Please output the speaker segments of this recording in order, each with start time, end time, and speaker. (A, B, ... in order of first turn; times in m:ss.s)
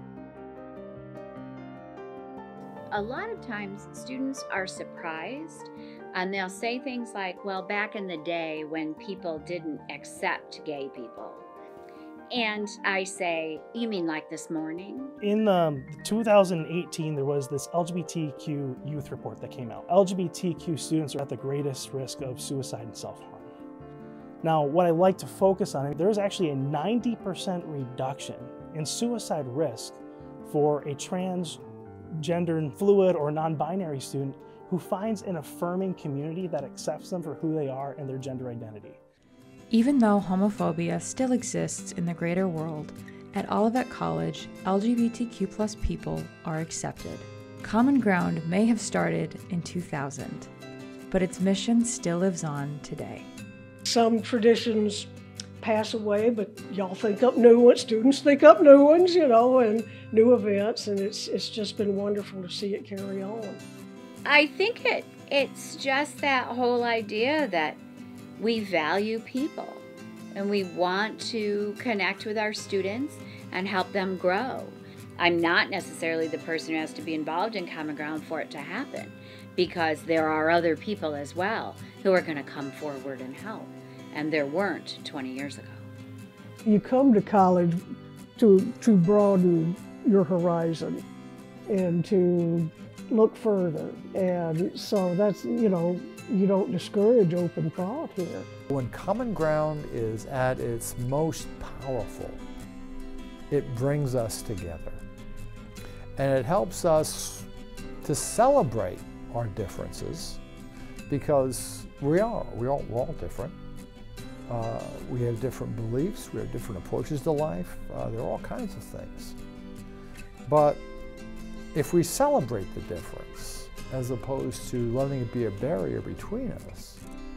0:02.9-0:11.4 A
0:12.3-0:15.1 A
0:15.2-0:23.5 B
0:24.4-0:31.6 B
0:32.2-0:39.0 B
0:39.7-0:50.5 C
0:51.1-0:53.2 C
0:53.8-0:55.1 D
0:55.6-1:03.6 D
1:04.2-1:07.8 A
1:08.4-1:25.8 A
1:26.6-1:27.8 D
1:28.4-1:31.0 D
1:31.7-1:38.5 D
1:38.7-1:42.4 E
1:43.5-1:45.0 E
1:46.2-1:47.5 E
1:48.0-1:50.4 E
1:51.1-1:53.6 E
1:54.5-1:59.4 E
2:00.5-2:00.8 E
2:01.7-2:07.0 E